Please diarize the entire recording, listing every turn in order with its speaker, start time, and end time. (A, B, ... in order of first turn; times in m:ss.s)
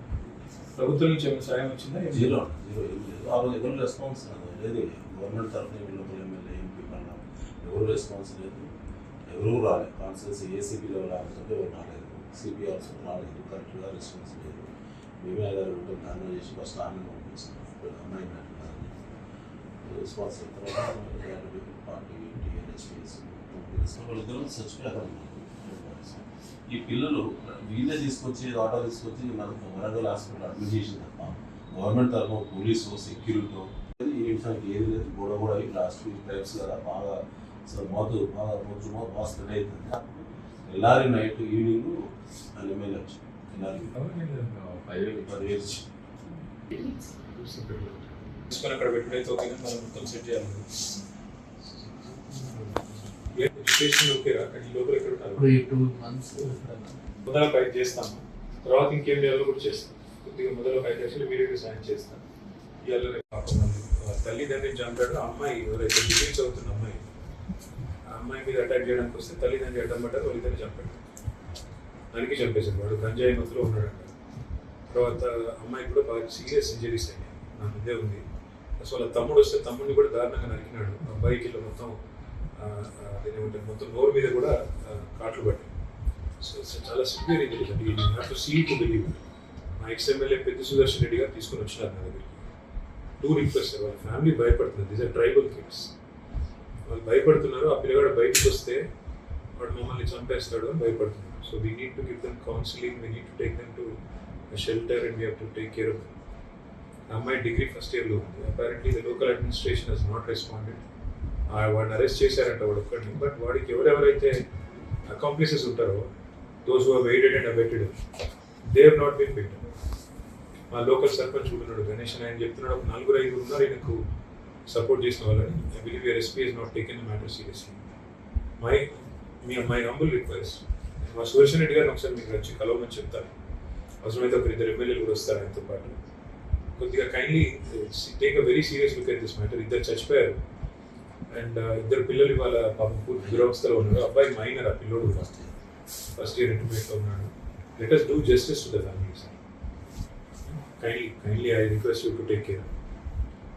0:00.8-0:02.4 A
0:02.1-0:08.7 B
0:09.3-0:14.7 B
0:15.2-0:19.0 B
0:19.8-0:42.0 B
0:42.5-0:43.9 B
0:43.8-0:44.5 A
0:44.5-0:45.4 C
0:45.0-0:45.8 B
0:47.3-0:50.6 A
0:52.5-0:52.8 A
0:53.3-0:55.6 A
0:55.3-0:56.9 C
0:57.2-1:02.2 A
1:02.8-1:07.1 A
1:08.0-1:11.0 A
1:12.1-1:14.1 A
1:14.9-1:18.2 A
1:18.8-1:22.0 A
1:22.6-1:25.7 A
1:26.4-1:29.2 A
1:29.8-1:32.4 A
1:33.2-1:35.9 A
1:36.8-1:38.8 A
1:39.6-1:43.9 A
1:44.5-1:46.1 A
1:47.1-1:50.8 A
1:51.5-1:54.4 A
1:55.1-1:56.0 A
1:56.6-1:57.9 A
1:58.6-1:59.6 A
2:00.7-2:04.0 A
2:04.7-2:07.8 A
2:08.6-2:13.3 A
2:14.0-2:15.9 A
2:16.8-2:20.4 A
2:21.3-2:25.2 A
2:23.1-2:23.7 B
2:25.1-2:25.6 B
2:26.2-2:29.4 A
2:30.4-2:32.7 A